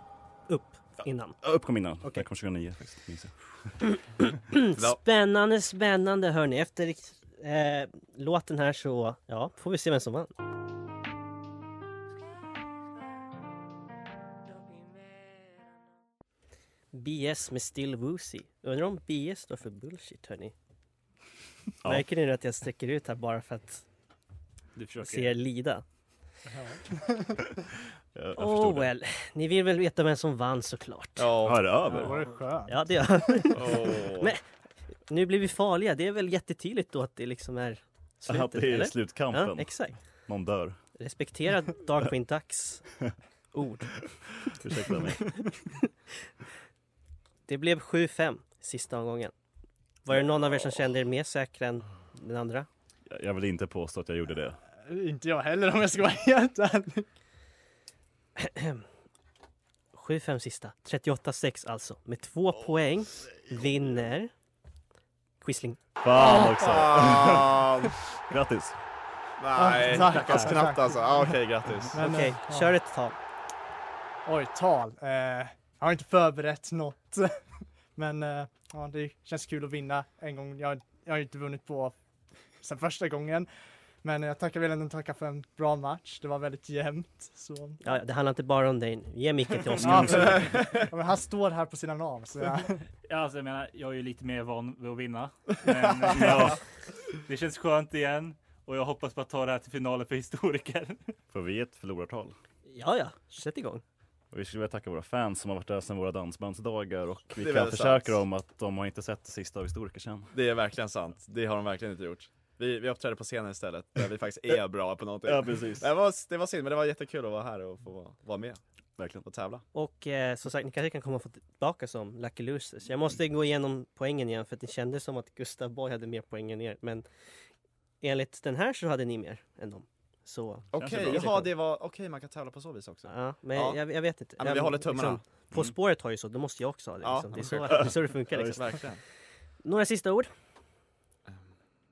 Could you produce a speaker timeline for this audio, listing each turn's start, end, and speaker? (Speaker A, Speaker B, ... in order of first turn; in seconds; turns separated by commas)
Speaker A: 0.5-1.4, Speaker B: 1.4-4.0, Speaker A: 4.5-10.3, Speaker A: 16.9-20.5, Speaker A: 21.8-23.8, Speaker C: 24.8-25.3, Speaker A: 25.0-25.8, Speaker D: 26.5-27.4, Speaker B: 28.1-28.9, Speaker A: 28.4-31.3, Speaker E: 31.2-31.9, Speaker B: 31.4-32.2, Speaker D: 31.9-33.7, Speaker A: 32.7-34.4, Speaker E: 33.5-34.3, Speaker A: 35.1-40.0, Speaker B: 38.3-40.8, Speaker A: 41.0-42.9, Speaker A: 43.5-44.0, Speaker B: 44.5-45.5, Speaker A: 47.5-49.3, Speaker A: 50.0-52.7, Speaker B: 53.1-54.6, Speaker D: 54.9-57.1, Speaker A: 58.4-58.8, Speaker A: 59.9-64.3, Speaker A: 65.4-65.8, Speaker B: 66.0-67.7, Speaker E: 66.2-68.0, Speaker B: 68.3-68.7, Speaker E: 69.4-72.0, Speaker D: 69.5-71.3, Speaker D: 71.9-72.7, Speaker A: 72.0-73.2, Speaker D: 74.2-77.4, Speaker D: 78.0-81.9, Speaker D: 82.6-83.5, Speaker D: 84.0-87.8, Speaker A: 87.8-90.5, Speaker D: 89.8-92.8, Speaker E: 90.2-90.7, Speaker C: 93.1-101.1, Speaker B: 96.1-96.6, Speaker B: 101.3-102.3, Speaker A: 102.7-103.8, Speaker B: 104.3-110.3, Speaker E: 107.4-108.2, Speaker E: 110.3-118.6, Speaker B: 115.2-115.9, Speaker B: 119.0-119.2, Speaker E: 119.2-119.6, Speaker A: 119.7-127.0, Speaker A: 128.0-131.5, Speaker E: 130.7-133.8, Speaker A: 133.1-138.8, Speaker E: 134.4-135.2, Speaker E: 137.0-139.0, Speaker B: 137.8-138.4, Speaker A: 139.6-140.3